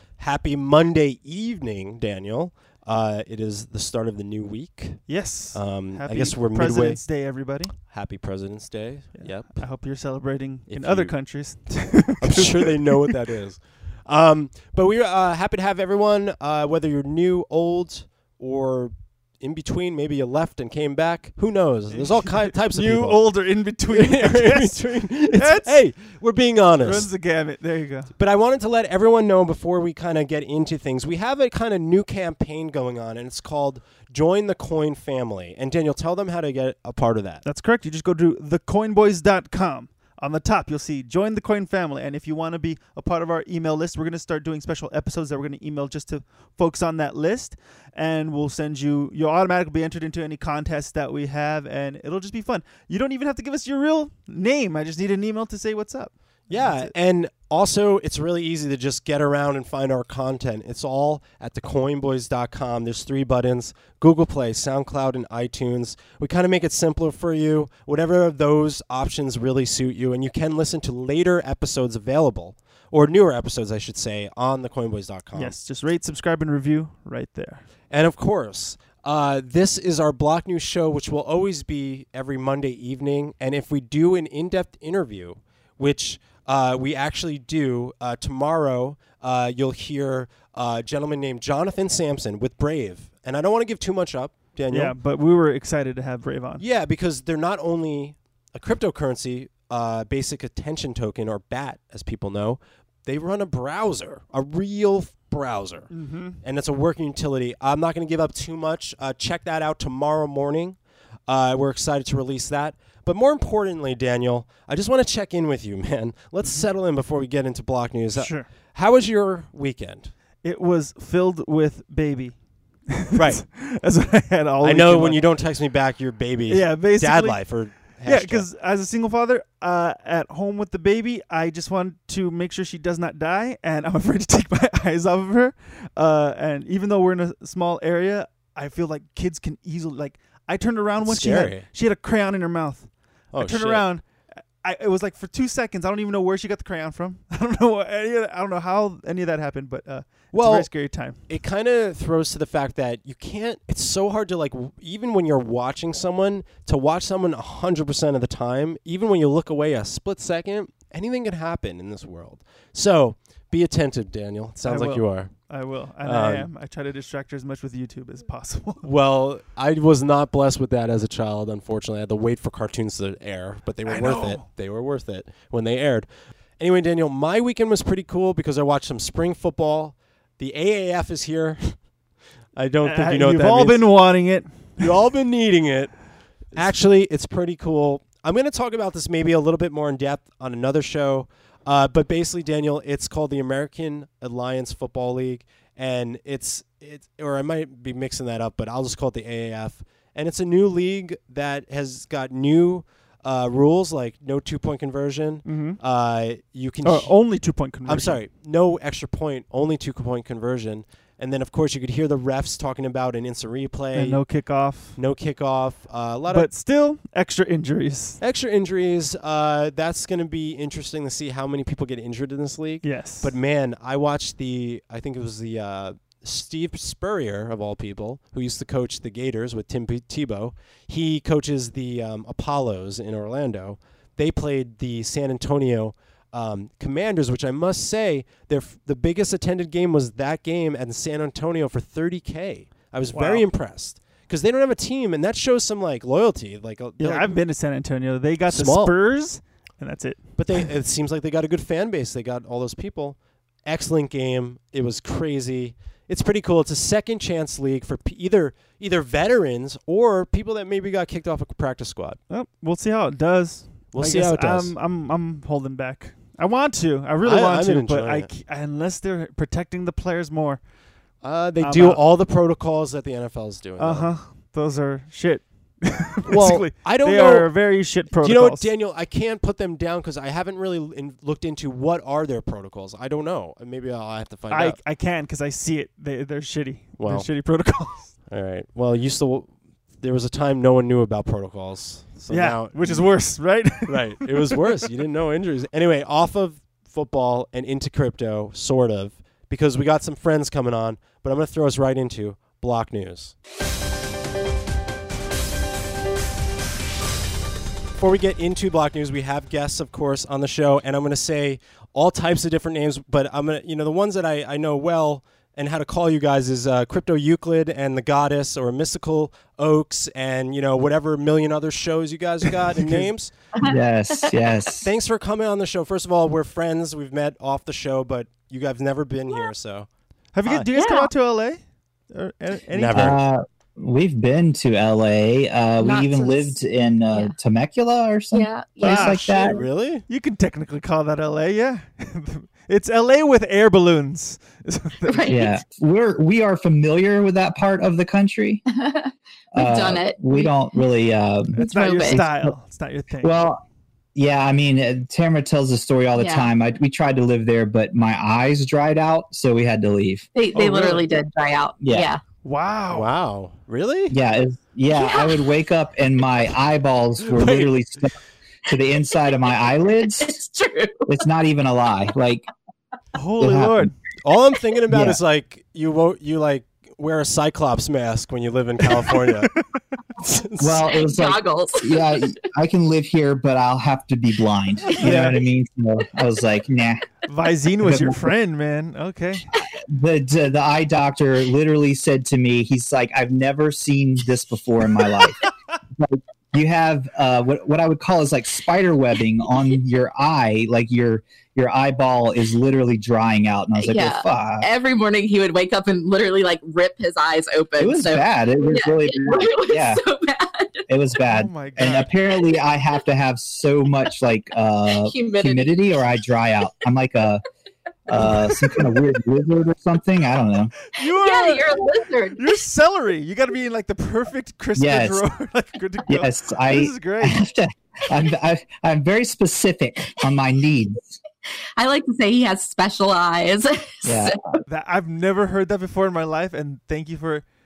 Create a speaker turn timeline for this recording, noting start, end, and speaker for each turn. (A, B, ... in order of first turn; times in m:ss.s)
0:00.2-0:07.1 A
0:05.1-0:07.8 B
0:07.9-0:09.6 A
0:09.1-0:13.1 B
0:10.7-0:27.1 A
0:21.9-0:25.8 B
0:26.8-0:28.1 B
0:28.2-0:37.4 A
0:37.4-0:56.9 B
0:56.5-1:15.6 A
1:15.3-1:17.6 B
1:17.9-1:35.0 A
1:34.7-1:36.6 B
1:36.6-2:00.1 A
1:45.9-1:46.4 B
1:58.1-1:58.5 B
2:00.4-2:02.4 B
2:02.9-2:05.2 B
2:03.1-2:03.4 A
2:04.6-2:08.4 A
2:06.5-2:24.0 B
2:21.0-2:21.7 A
2:23.3-2:23.8 A
2:24.6-2:31.2 B
2:30.3-2:30.7 A
2:31.3-2:46.5 A
2:44.6-2:48.8 B
2:48.8-3:01.9 A
2:53.8-2:54.4 B
3:02.6-3:03.9 A
3:02.8-3:04.9 B
3:04.8-3:34.3 A
3:25.4-3:25.8 B
3:26.8-3:28.2 B
3:33.9-3:35.0 B
3:35.0-3:36.5 A
3:36.3-3:38.2 B
3:38.2-4:07.4 A
3:42.8-3:43.3 B
4:03.1-4:03.4 B
4:07.0-4:10.7 B
4:08.5-4:09.0 A
4:10.4-4:22.2 A
4:22.3-4:30.6 B
4:23.9-4:24.8 A
4:27.2-4:28.3 A
4:31.2-4:34.1 A
4:31.6-4:32.0 B
4:33.8-4:38.7 B
4:36.3-4:44.8 A
4:44.5-4:48.1 B
4:47.0-5:03.4 A
4:52.3-4:54.6 B
5:08.0-5:23.3 A
5:22.8-5:23.1 B
5:23.6-5:24.3 C
5:23.6-5:24.9 D
5:24.8-5:29.9 A
5:30.3-5:33.2 B
5:30.8-5:31.1 C
5:32.7-5:33.2 A
5:32.9-5:39.6 D
5:35.8-5:36.6 C
5:38.3-5:39.6 C
5:38.8-5:39.2 B
5:39.4-5:40.0 A
5:40.1-5:45.5 B
5:45.1-5:45.6 C
5:45.3-5:48.6 D
5:48.7-5:50.5 C
5:49.5-5:52.6 D
5:51.5-5:53.4 B
5:51.6-5:52.2 C
5:53.2-5:53.6 D
5:54.1-6:00.2 D
5:56.2-5:56.5 C
6:00.3-6:02.2 C
6:00.6-6:01.0 B
6:01.8-6:02.1 D
6:02.4-6:03.1 B
6:02.9-6:04.2 A
6:04.1-6:08.1 D
6:04.9-6:05.5 C
6:07.3-6:07.8 A
6:08.6-6:10.4 D
6:10.2-6:11.0 C
6:11.1-6:12.4 D
6:13.1-6:13.9 B
6:13.4-6:13.9 D
6:14.2-6:19.5 A
6:14.9-6:15.2 D
6:20.2-6:20.8 A
6:20.6-6:27.0 D
6:20.8-6:22.3 C
6:25.0-6:25.4 B
6:27.3-6:29.4 B
6:27.8-6:28.3 D
6:29.9-6:44.7 D
6:43.8-6:50.9 C
6:47.8-6:50.0 D
6:50.9-6:57.4 D
6:51.3-6:52.1 B
6:54.9-6:55.8 C
6:58.1-7:00.7 D
6:58.1-6:59.0 C
7:00.8-7:01.7 B
7:01.0-7:02.4 C
7:02.3-7:07.4 B
7:04.8-7:05.2 D
7:06.1-7:11.2 D
7:11.8-7:14.6 C
7:14.0-7:14.4 D
7:14.7-7:17.4 B